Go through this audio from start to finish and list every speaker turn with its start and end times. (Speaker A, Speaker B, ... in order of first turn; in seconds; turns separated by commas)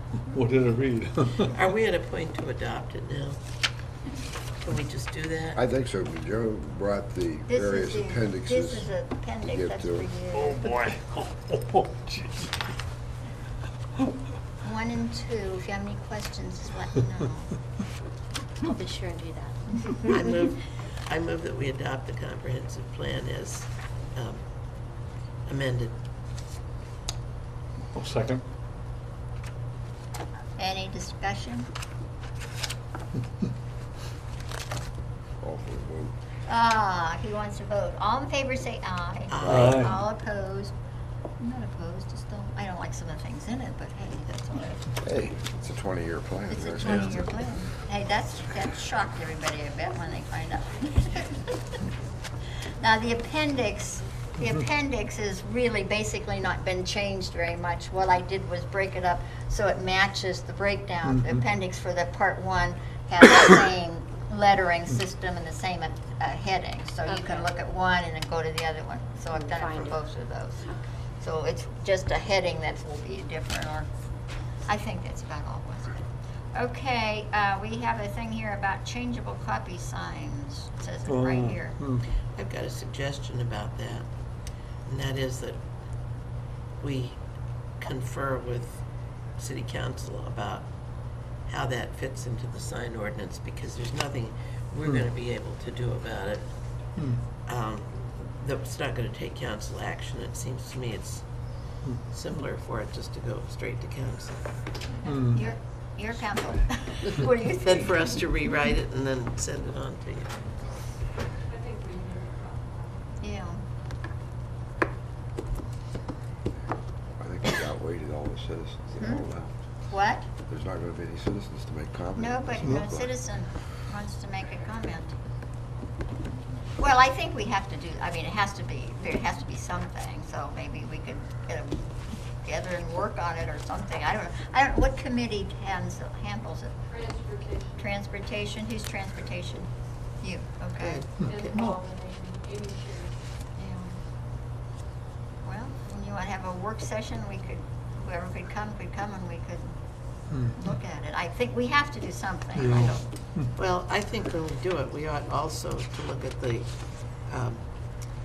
Speaker A: 0.3-1.5, Speaker B: 1.5-3.4, Speaker B: 4.6-5.6, Speaker C: 5.6-8.9, Speaker D: 7.5-10.8, Speaker C: 9.4-10.1, Speaker A: 10.4-12.5, Speaker D: 14.6-17.5, Speaker E: 18.6-20.4, Speaker B: 20.1-24.4, Speaker B: 25.4-25.9, Speaker A: 27.9-28.4, Speaker D: 30.6-31.7, Speaker C: 35.4-36.1, Speaker D: 36.5-40.7, Speaker B: 39.3-39.9, Speaker C: 39.4-39.7, Speaker A: 39.5-39.9, Speaker D: 41.4-44.9, Speaker C: 45.0-47.3, Speaker D: 46.5-51.6, Speaker D: 52.8-73.9, Speaker A: 61.0-61.4, Speaker E: 67.1-67.5, Speaker E: 69.3-70.0, Speaker D: 74.7-76.0, Speaker D: 76.5-81.8, Speaker A: 81.1-82.0, Speaker B: 82.3-84.1, Speaker B: 84.8-85.6, Speaker B: 86.8-87.2, Speaker B: 87.8-88.8, Speaker B: 89.4-90.7, Speaker B: 91.5-96.5, Speaker B: 97.5-101.2, Speaker B: 102.1-104.4, Speaker A: 105.1-105.4, Speaker D: 105.3-108.2, Speaker B: 107.6-110.3, Speaker F: 111.6-112.6, Speaker D: 113.2-113.6, Speaker C: 117.2-119.6, Speaker D: 119.0-119.2, Speaker D: 119.9-120.3, Speaker C: 120.5-123.1, Speaker D: 122.2-125.2, Speaker D: 126.8-131.9, Speaker D: 132.4-136.7, Speaker F: 137.1-137.6, Speaker D: 137.8-141.8, Speaker B: 140.8-141.7, Speaker F: 141.3-143.0, Speaker D: 143.6-143.9, Speaker D: 145.4-149.7, Speaker A: 150.3-150.6, Speaker D: 150.5-153.0, Speaker A: 152.6-153.5, Speaker B: 153.6-156.7, Speaker B: 157.3-157.6